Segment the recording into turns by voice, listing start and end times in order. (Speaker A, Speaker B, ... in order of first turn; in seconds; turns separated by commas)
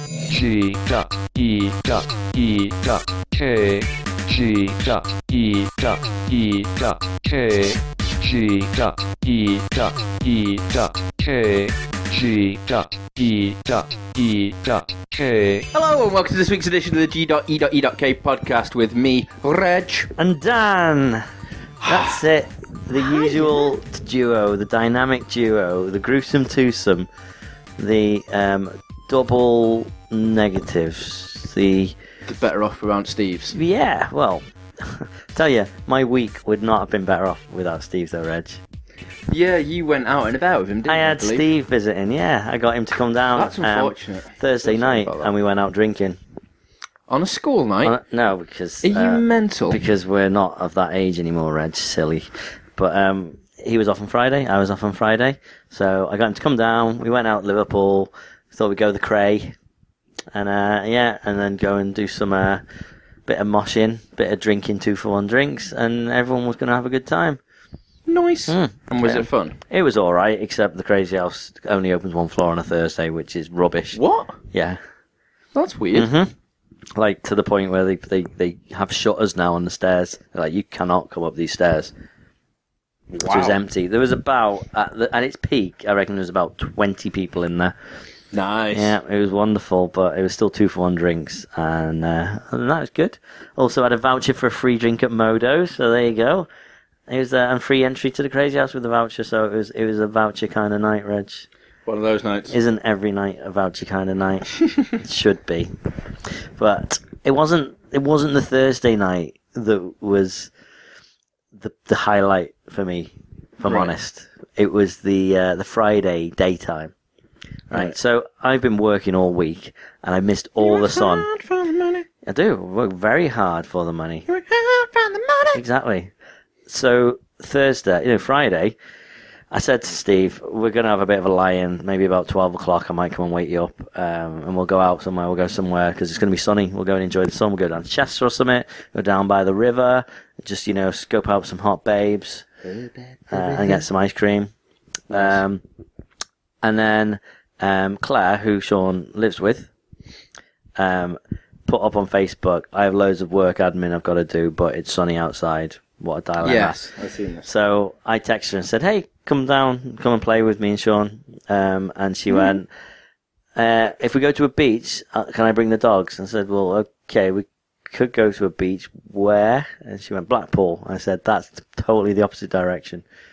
Speaker A: 0.3-15.7, Speaker B: 15.7-20.1, Speaker C: 20.2-21.2, Speaker B: 21.8-22.2, Speaker C: 21.8-27.1, Speaker B: 23.0-23.7, Speaker C: 27.8-32.0, Speaker B: 32.2-33.5, Speaker C: 33.5-38.6, Speaker B: 39.3-41.5, Speaker C: 40.9-46.2, Speaker B: 43.3-45.3, Speaker B: 47.1-47.9, Speaker C: 47.8-59.5, Speaker B: 48.8-49.8, Speaker C: 60.3-62.6, Speaker C: 63.3-67.4, Speaker B: 68.1-69.6, Speaker C: 68.5-74.0, Speaker B: 73.9-74.4, Speaker C: 74.5-74.8, Speaker B: 75.5-76.1, Speaker C: 75.9-76.3, Speaker C: 76.9-81.9, Speaker B: 83.1-83.6, Speaker C: 83.2-87.7, Speaker B: 88.3-89.0, Speaker C: 88.7-96.5, Speaker C: 97.1-101.5, Speaker B: 101.8-102.5, Speaker C: 102.5-105.7, Speaker C: 106.6-110.5, Speaker C: 111.5-116.9, Speaker B: 113.7-113.9, Speaker C: 117.7-121.3, Speaker B: 120.6-122.1, Speaker C: 122.2-124.3, Speaker B: 124.3-125.6, Speaker C: 125.5-126.1, Speaker C: 126.7-128.8, Speaker C: 129.5-142.4, Speaker B: 142.6-143.8, Speaker C: 143.3-144.5, Speaker B: 145.1-145.4, Speaker C: 145.1-145.6, Speaker C: 146.6-149.7, Speaker C: 150.8-156.8, Speaker B: 156.4-157.5, Speaker C: 157.4-162.7, Speaker C: 163.6-173.0